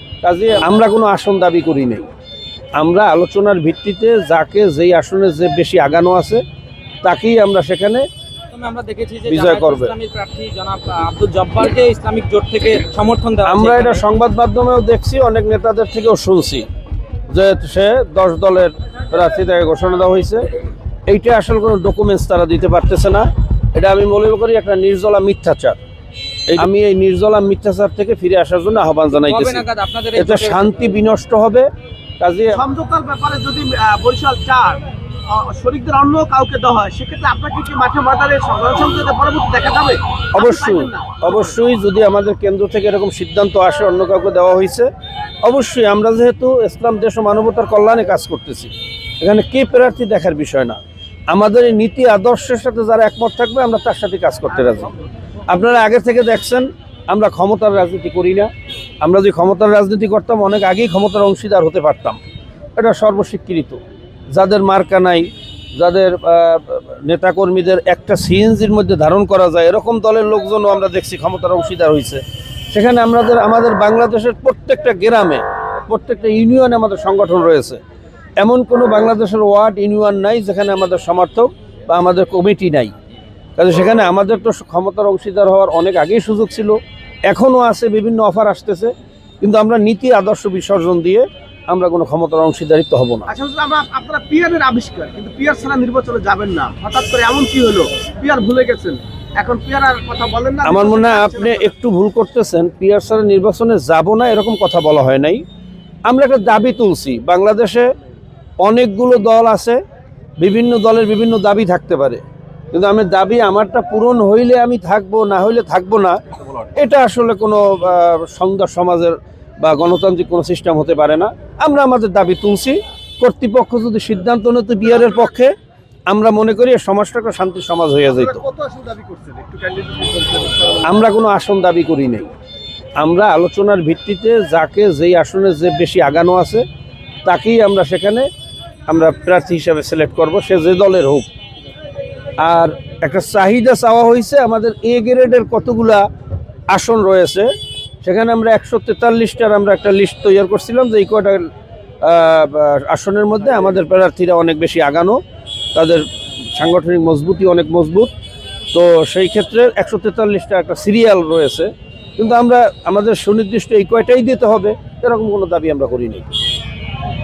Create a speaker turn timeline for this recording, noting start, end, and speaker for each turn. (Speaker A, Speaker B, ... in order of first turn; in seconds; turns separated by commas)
Speaker A: 0.2-2.1, Speaker A: 2.8-6.4, Speaker A: 7.0-8.0, Speaker B: 8.5-14.0, Speaker A: 9.3-9.9, Speaker A: 13.4-16.6, Speaker A: 17.3-20.4, Speaker A: 21.1-25.8, Speaker A: 26.5-31.7, Speaker B: 29.1-30.6, Speaker A: 32.2-32.6, Speaker C: 32.5-41.5, Speaker A: 40.3-44.9, Speaker A: 45.4-54.9, Speaker A: 55.5-58.5, Speaker A: 59.0-62.2, Speaker A: 62.8-63.8, Speaker A: 64.3-77.8, Speaker A: 78.4-82.9, Speaker A: 83.6-86.8, Speaker A: 87.3-93.3, Speaker C: 93.3-101.7, Speaker A: 100.6-105.4, Speaker A: 106.1-107.9, Speaker A: 108.6-109.8, Speaker A: 110.4-116.2, Speaker A: 116.7-125.5, Speaker A: 126.1-128.4, Speaker C: 128.1-130.8, Speaker A: 130.8-132.3, Speaker A: 133.0-136.6, Speaker A: 137.2-138.3, Speaker A: 138.9-141.3, Speaker A: 142.4-146.0, Speaker A: 146.7-147.5, Speaker A: 148.0-151.5, Speaker A: 152.0-155.2, Speaker A: 155.7-158.1, Speaker A: 158.7-166.3